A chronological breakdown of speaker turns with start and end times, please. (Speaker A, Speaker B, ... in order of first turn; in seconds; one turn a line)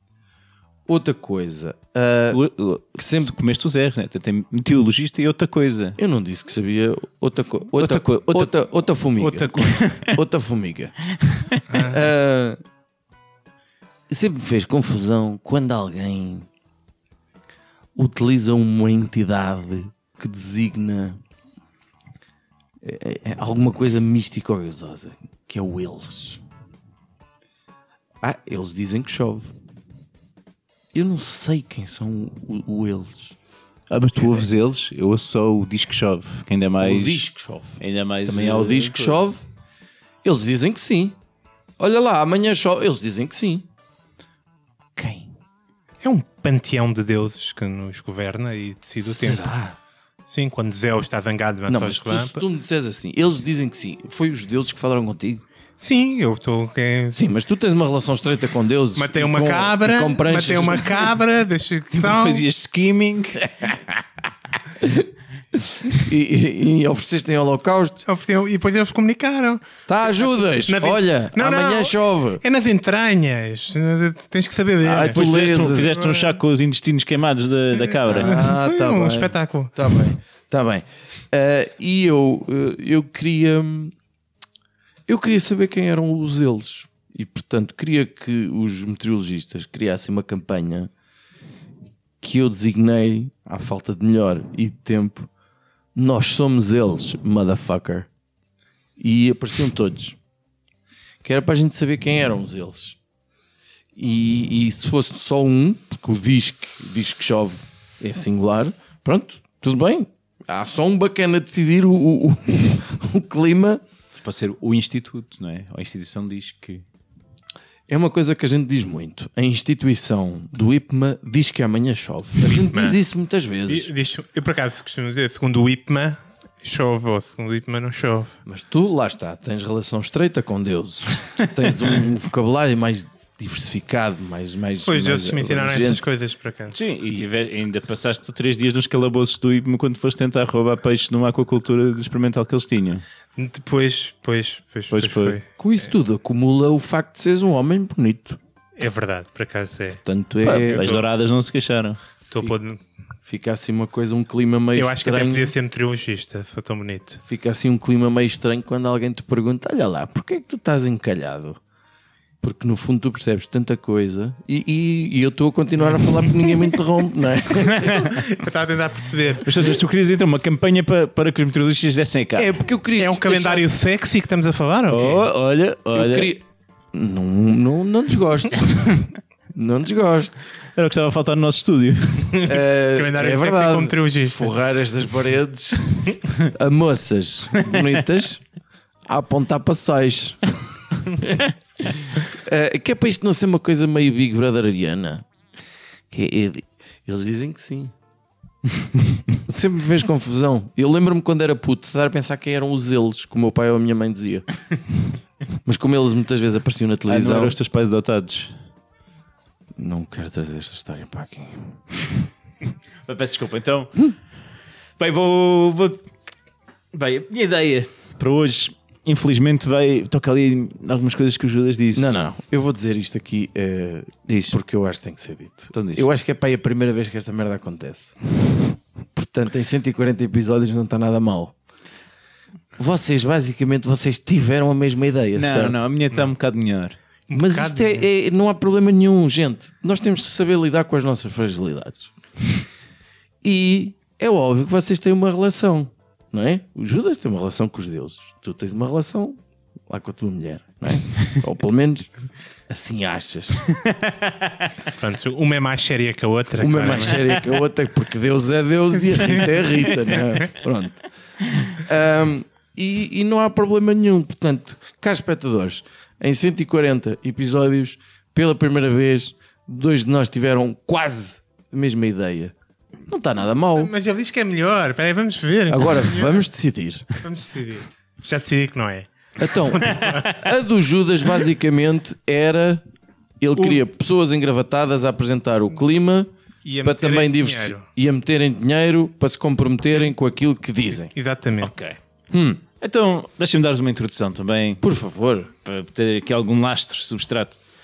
Speaker A: 0.9-2.4
Speaker B: 2.3-6.0
Speaker A: 2.9-3.3
Speaker A: 6.0-10.9
Speaker B: 7.8-8.5
Speaker C: 9.2-9.8
Speaker B: 9.4-10.1
Speaker B: 11.2-11.6
Speaker C: 11.7-12.0
Speaker A: 11.7-12.6
Speaker A: 14.1-16.5
Speaker A: 17.9-21.2
Speaker A: 22.8-26.4
Speaker A: 28.2-29.5
Speaker A: 30.9-33.4
Speaker B: 33.9-37.2
Speaker A: 36.8-39.4
Speaker B: 37.8-39.2
Speaker A: 40.2-41.2
Speaker A: 41.8-43.6
Speaker B: 45.0-45.3
Speaker C: 46.0-49.5
Speaker A: 49.0-49.8
Speaker C: 50.3-52.4
Speaker A: 51.7-55.4
Speaker C: 55.8-57.2
Speaker A: 57.1-61.1
Speaker C: 59.0-62.4
Speaker B: 61.9-63.7
Speaker A: 63.6-63.9
Speaker A: 64.8-68.0
Speaker C: 68.0-69.7
Speaker A: 69.9-72.4
Speaker C: 70.7-76.4
Speaker A: 74.8-75.9
Speaker B: 75.0-78.5
Speaker C: 77.8-80.1
Speaker A: 78.1-83.9
Speaker A: 85.1-90.9
Speaker A: 92.2-95.3
Speaker A: 95.9-98.1
Speaker A: 99.0-100.2
Speaker A: 101.2-103.0
Speaker A: 104.0-113.8
Speaker B: 114.2-116.8
Speaker A: 117.9-123.9
Speaker C: 122.5-123.0
Speaker C: 123.7-128.4
Speaker A: 128.4-136.0
Speaker C: 134.8-136.8
Speaker B: 136.7-143.0
Speaker C: 143.4-145.5
Speaker B: 144.9-145.4
Speaker A: 145.6-148.4
Speaker C: 148.8-150.0
Speaker A: 150.0-150.9
Speaker B: 150.4-152.0
Speaker C: 150.6-151.1
Speaker C: 152.3-152.8
Speaker A: 153.2-155.5
Speaker C: 154.8-157.2
Speaker A: 157.2-161.6
Speaker A: 162.4-168.0
Speaker C: 165.9-166.3
Speaker B: 167.6-168.1
Speaker C: 167.8-169.6
Speaker B: 169.4-172.6
Speaker A: 172.4-173.6
Speaker C: 173.0-175.3
Speaker B: 174.9-176.3
Speaker A: 175.9-180.5
Speaker B: 180.7-182.4
Speaker C: 182.3-184.5
Speaker A: 182.4-188.4
Speaker B: 187.6-187.9
Speaker A: 189.1-195.2
Speaker A: 196.1-197.9
Speaker A: 199.4-204.4
Speaker A: 205.6-207.6
Speaker B: 207.1-208.5
Speaker A: 209.8-211.7
Speaker B: 213.0-214.1
Speaker B: 215.0-216.1
Speaker B: 216.9-222.2
Speaker A: 221.9-228.2
Speaker B: 224.3-224.6
Speaker B: 225.7-226.1
Speaker A: 229.1-231.5
Speaker A: 232.8-235.8
Speaker B: 235.3-237.0
Speaker C: 237.3-238.1
Speaker A: 237.3-242.1
Speaker A: 243.4-252.1
Speaker A: 252.7-253.6
Speaker B: 253.7-254.7
Speaker C: 254.9-257.4
Speaker A: 256.6-261.0
Speaker C: 259.2-260.4
Speaker A: 261.7-272.5
Speaker A: 273.1-273.9
Speaker C: 273.8-276.4
Speaker A: 275.7-277.2
Speaker C: 277.2-280.4
Speaker A: 279.4-282.8
Speaker A: 283.4-286.3
Speaker C: 283.6-283.8
Speaker C: 286.6-287.8
Speaker A: 286.8-291.1
Speaker C: 291.1-291.7
Speaker B: 291.6-292.0
Speaker A: 292.3-292.6
Speaker B: 292.8-294.8
Speaker A: 294.8-295.5
Speaker B: 295.6-297.6